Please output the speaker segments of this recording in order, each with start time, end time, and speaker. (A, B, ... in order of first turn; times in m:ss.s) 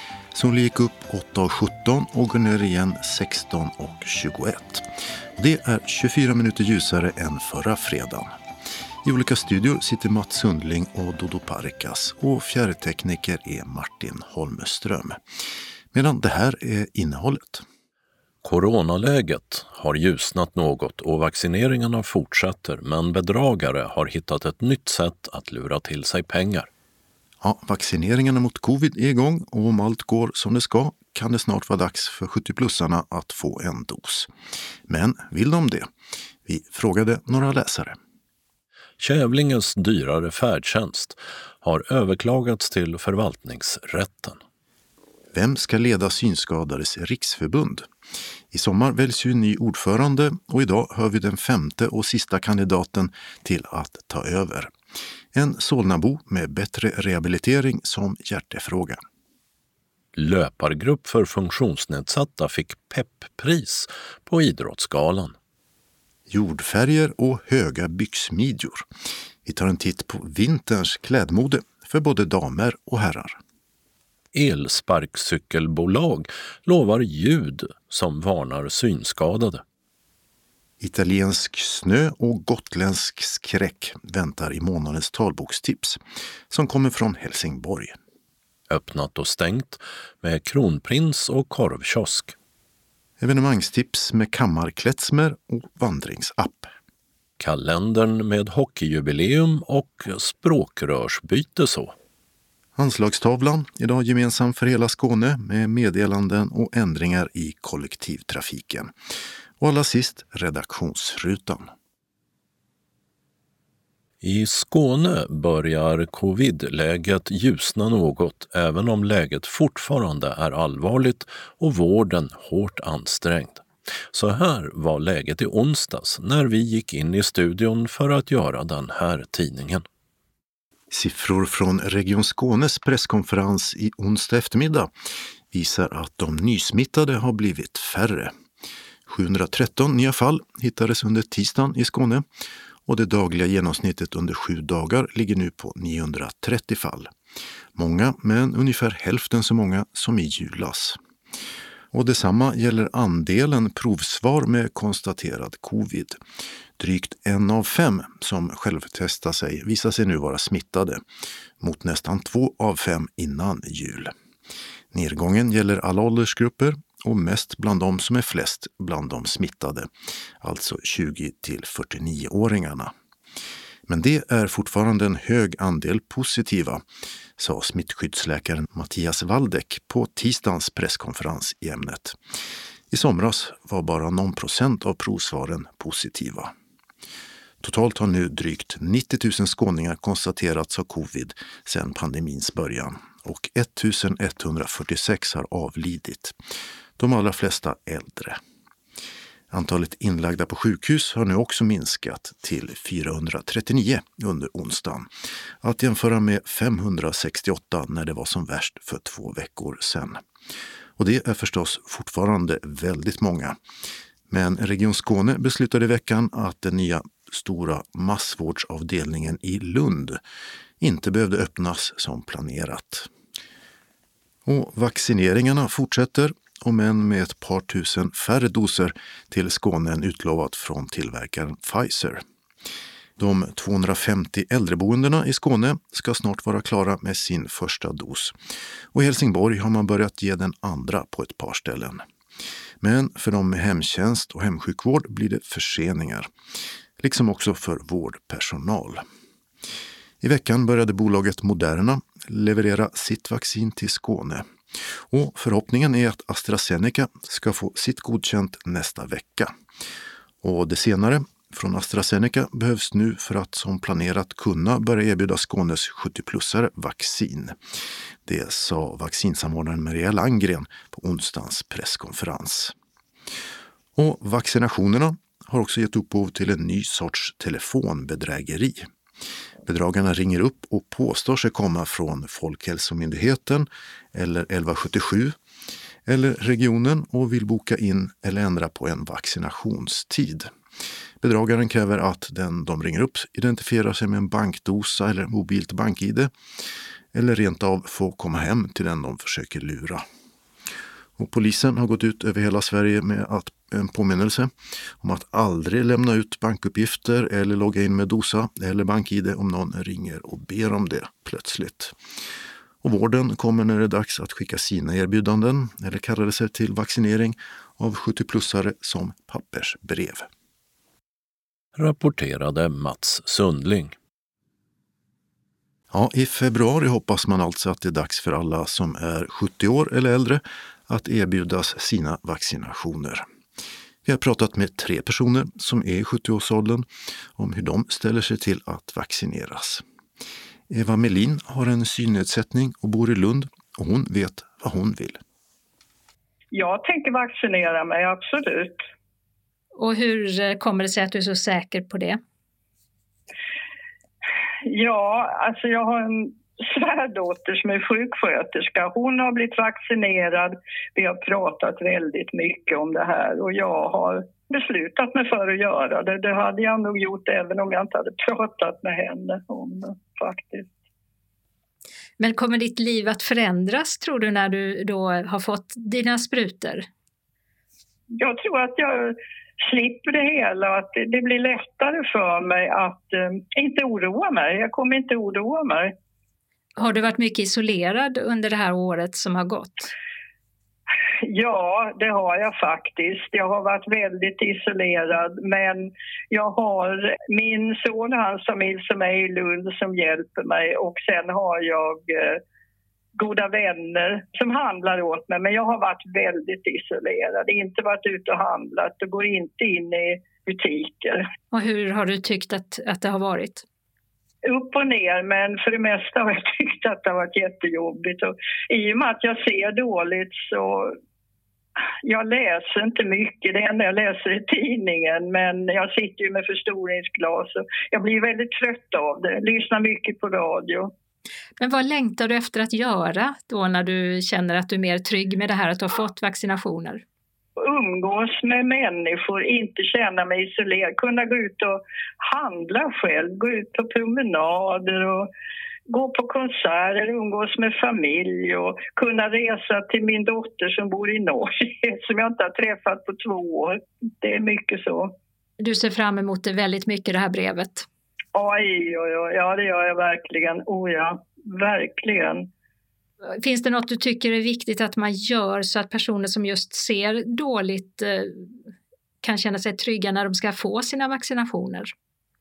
0:00.3-0:08.3 A
0:09.0-0:15.2 A
0:15.9-0:17.6 A
0:18.4-0:26.7 B
0:27.4-0:34.3 A
0:34.9-0:35.9 A
0:36.4-0:38.0 A
0:39.0-0:44.4 B
0:45.3-0:47.9 A
0:48.5-0:54.7 A
0:55.3-0:59.0 A
1:00.1-1:05.3 B
1:06.3-1:08.9 A
1:09.4-1:13.4 A
1:14.3-1:19.6 B
1:20.8-1:28.0 A
1:28.7-1:32.3 B
1:33.2-1:36.7 A
1:37.4-1:41.9 B
1:42.8-1:48.9 A
1:49.6-1:51.7 A
1:54.2-2:09.8 B
2:10.9-2:14.9 A
2:15.5-2:18.3 A
2:19.1-2:22.2 A
2:22.8-2:27.1 A
2:27.8-2:31.0 A
2:31.9-2:36.2 A
2:36.8-2:41.0 A
2:41.6-2:44.1 A
2:44.9-2:49.9 A
2:50.4-2:52.9 A
2:53.9-2:56.8 A
2:57.4-3:02.2 A
3:02.9-3:06.5 A
3:07.6-3:16.4 A
3:17.0-3:18.4 A
3:19.5-3:25.1 A
3:25.6-3:30.2 A
3:31.0-3:33.6 A
3:34.3-3:40.2 A
3:40.8-3:43.1 A
3:44.5-3:52.2 A
3:53.2-3:58.4 A
3:58.9-4:02.0 A
4:02.8-4:06.3 A
4:07.0-4:09.0 A
4:10.2-4:19.5 A
4:20.4-4:27.6 A
4:28.2-4:32.8 A
4:34.0-4:38.9 A
4:39.6-4:45.4 A
4:46.0-4:50.5 A
4:51.2-4:56.3 A
4:57.1-5:00.0 A
5:01.2-5:12.0 A
5:12.8-5:20.3 A
5:21.8-5:24.0 B
5:25.9-5:33.2 A
5:34.0-5:39.8 A
5:40.7-5:45.2 A
5:46.5-5:48.9 C
5:49.8-5:52.2 D
5:54.6-6:10.7 C
6:12.2-6:16.9 D
6:18.1-6:25.9 C
6:26.8-6:29.9 D
6:31.2-6:42.4 C
6:43.2-6:51.2 C
6:51.5-6:53.6 D
6:54.4-7:01.0 C
7:02.0-7:10.9 C
7:11.6-7:17.0 D
7:17.6-7:25.3 C
7:25.9-7:35.1 C
7:35.6-7:37.9 D
7:38.4-7:42.5 C
7:43.4-7:48.5 D
7:49.2-7:51.9 D